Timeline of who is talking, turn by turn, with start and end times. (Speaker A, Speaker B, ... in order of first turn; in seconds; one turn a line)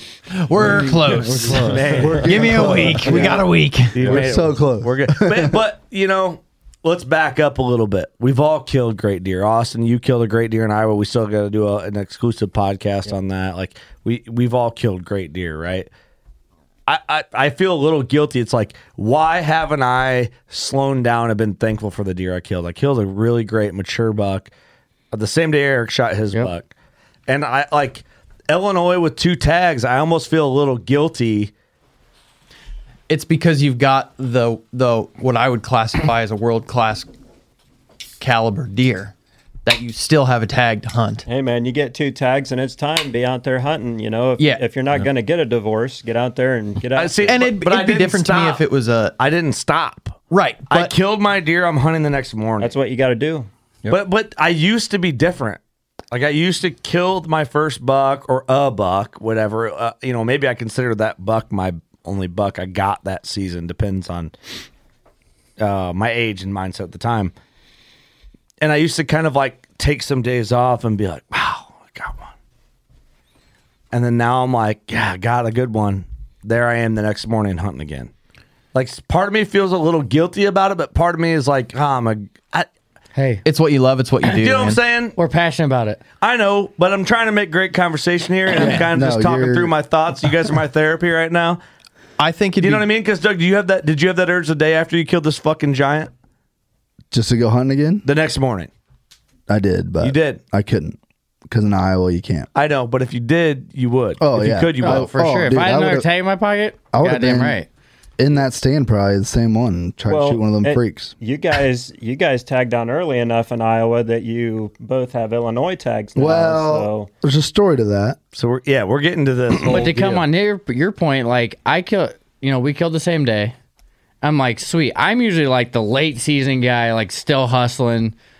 Speaker A: 0.3-1.7
Speaker B: 1.4-15.9
Speaker C: 1.5-3.4
Speaker A: 2.2-4.1
Speaker C: 4.0-5.6
Speaker B: 16.9-24.5
Speaker B: 25.1-26.7
Speaker B: 27.3-31.5
Speaker A: 33.1-37.1
Speaker A: 38.2-39.1
Speaker A: 39.6-41.2
Speaker D: 41.3-47.4
Speaker A: 44.4-44.6
Speaker B: 47.0-48.6
Speaker A: 47.3-49.1
Speaker B: 49.2-52.7
Speaker A: 50.3-50.9
Speaker D: 52.6-53.5
Speaker B: 53.9-55.6
Speaker B: 56.1-64.3
Speaker B: 65.6-67.3
Speaker B: 68.6-72.3
Speaker B: 73.9-78.1
Speaker B: 78.7-82.7
Speaker E: 83.1-83.4
Speaker A: 83.5-84.8
Speaker B: 84.2-85.2
Speaker E: 85.2-86.0
Speaker B: 86.2-91.6
Speaker A: 88.6-88.9
Speaker C: 88.9-89.7
Speaker A: 92.2-92.9
Speaker B: 92.6-96.1
Speaker C: 97.1-98.1
Speaker B: 98.0-98.7
Speaker C: 99.5-101.0
Speaker B: 100.0-100.4
Speaker C: 101.5-102.5
Speaker B: 102.5-105.1
Speaker C: 104.2-106.1
Speaker E: 104.8-107.7
Speaker C: 106.9-107.6
Speaker C: 108.2-111.2
Speaker D: 110.1-117.1
Speaker C: 116.2-118.2
Speaker B: 118.3-120.2
Speaker E: 119.7-123.5
Speaker E: 124.2-128.2